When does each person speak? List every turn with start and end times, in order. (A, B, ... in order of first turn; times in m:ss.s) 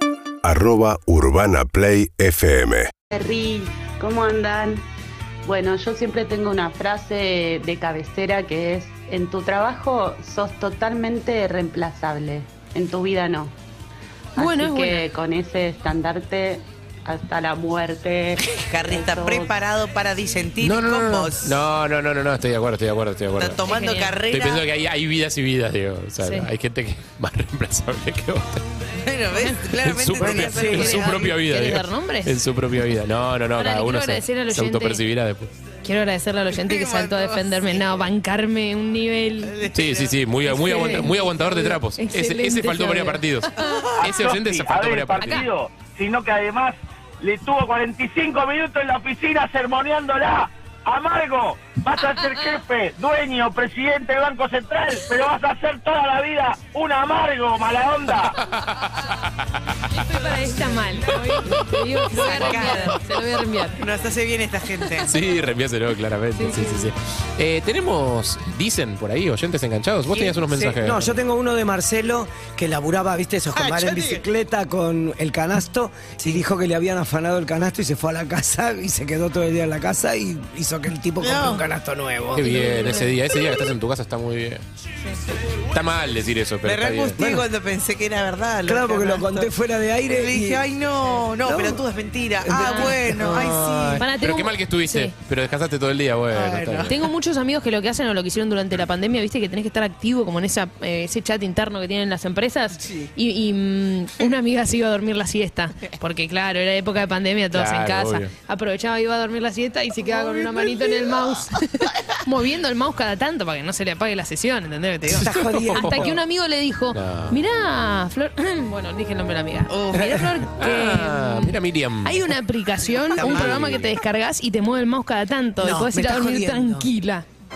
0:00.4-0:02.9 A
0:03.1-0:04.8 B
0:05.4-0:13.5 B
0:14.4-0:19.6 B
0:14.4-0:15.1 C
0:18.4-0:21.6 D
0:20.6-0:23.6 E
0:23.4-0:24.7 D
0:23.6-0:24.2 C
0:24.3-0:28.6 E
0:26.2-0:26.5 C
0:29.0-0:31.4 D
0:29.4-0:29.7 C
0:29.8-0:35.5 E
0:30.2-0:30.9 F
0:30.7-0:32.4 C
0:33.5-0:35.1 C
0:35.8-0:39.6 C
0:36.5-0:38.1 D
0:39.4-0:41.1 D
0:39.7-0:45.5 E
0:40.5-0:43.9 C
0:40.7-0:41.1 F
0:43.6-0:44.0 D
0:44.0-0:58.4 G
0:45.2-0:45.5 C
0:52.2-0:52.5 C
0:58.4-1:00.0 E
0:59.9-1:03.8 C
1:01.1-1:01.8 E
1:02.1-1:03.0 D
1:03.7-1:05.2 D
1:05.1-1:11.1 E
1:06.4-1:06.9 C
1:10.5-1:22.5 F
1:13.6-1:14.2 D
1:21.2-1:21.6 D
1:22.3-1:24.6 E
1:22.4-1:23.2 C
1:25.7-1:27.2 E
1:26.6-1:29.5 D
1:27.2-1:27.5 F
1:28.7-1:30.6 F
1:30.1-1:34.1 D
1:31.4-1:31.8 F
1:32.4-1:34.0 F
1:32.6-1:33.0 C
1:34.0-1:35.2 C
1:34.1-1:37.0 E
1:36.3-1:37.0 D
1:36.9-2:07.3 C
1:42.8-1:43.1 D
1:47.5-1:48.3 E
1:50.0-1:51.5 D
1:55.1-1:56.1 E
1:55.2-1:56.1 F
1:56.9-1:57.4 E
1:59.7-2:00.4 D
2:00.5-2:02.3 E
2:03.1-2:03.9 D
2:03.2-2:03.9 E
2:05.6-2:05.9 D
2:05.6-2:06.8 F